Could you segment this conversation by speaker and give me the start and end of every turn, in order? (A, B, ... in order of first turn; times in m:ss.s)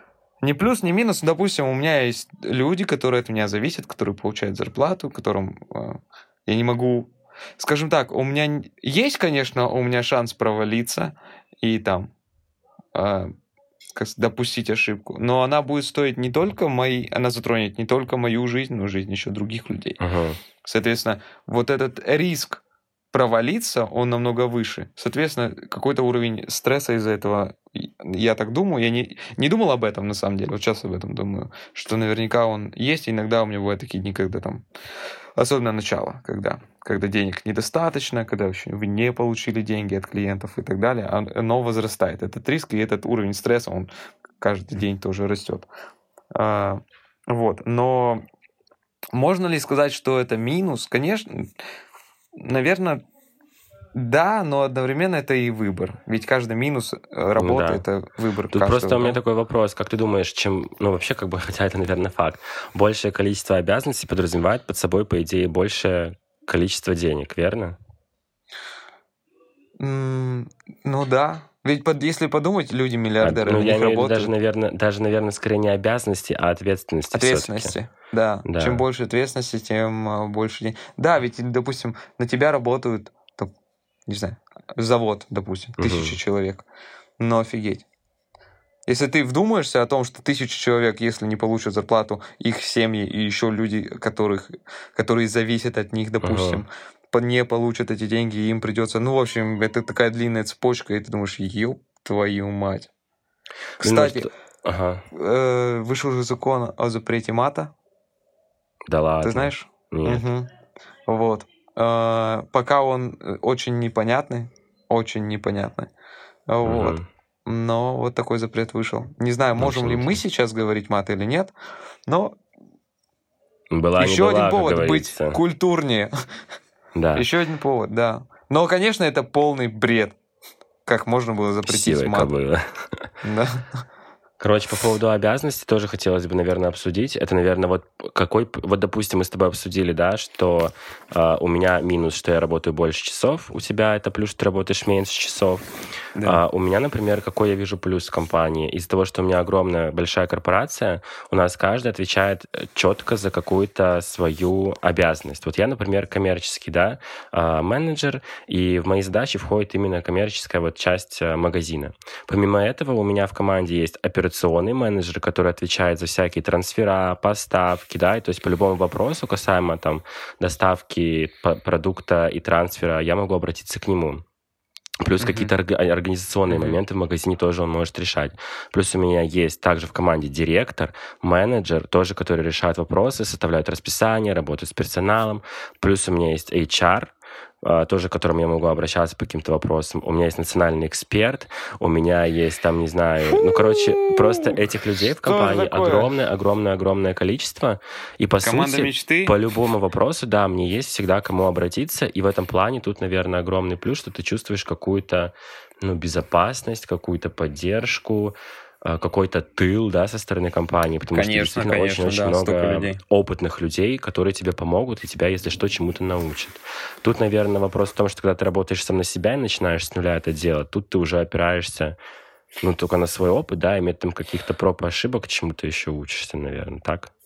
0:00.4-0:12.1 A
0:12.9-0:13.3 A
0:13.9-0:20.0 A
0:20.0-0:20.4 B
0:20.6-0:34.6 A
0:35.4-0:43.9 A
0:44.4-0:45.7 A
0:46.3-0:48.2 A
0:49.1-0:51.5 A
0:52.4-0:53.0 A
0:53.9-0:59.2 A
0:57.4-0:57.8 B
0:58.5-1:07.8 B
1:09.8-1:14.3 A
1:13.2-1:17.7 B
1:17.1-1:23.5 A
1:18.4-1:18.8 B
1:24.1-1:26.6 A
1:25.8-1:26.2 B
1:27.2-1:27.8 A
1:28.9-1:42.9 A
1:36.2-1:36.6 B
1:43.8-1:44.3 A
1:43.8-1:45.0 B
1:45.1-1:47.7 A
1:48.9-1:50.2 B
1:49.2-1:50.5 A
1:51.1-1:55.9 A
1:56.5-2:01.5 A
1:56.6-1:57.0 B
1:59.6-2:00.2 B
2:02.1-2:02.4 A
2:03.7-2:05.4 B
2:04.0-2:06.1 A
2:06.9-2:07.3 B
2:07.1-2:10.1 A
2:10.8-2:12.3 A
2:11.7-2:13.1 B
2:13.2-2:13.7 A
2:14.4-2:25.6 B
2:26.2-2:26.4 A
2:26.2-2:54.2 B
2:55.0-3:42.0 B
2:55.2-2:55.5 A
2:56.5-2:56.8 A
3:13.3-3:14.5 A
3:15.2-3:16.1 A
3:18.4-3:19.4 A
3:31.1-3:33.0 A
3:42.6-3:47.1 B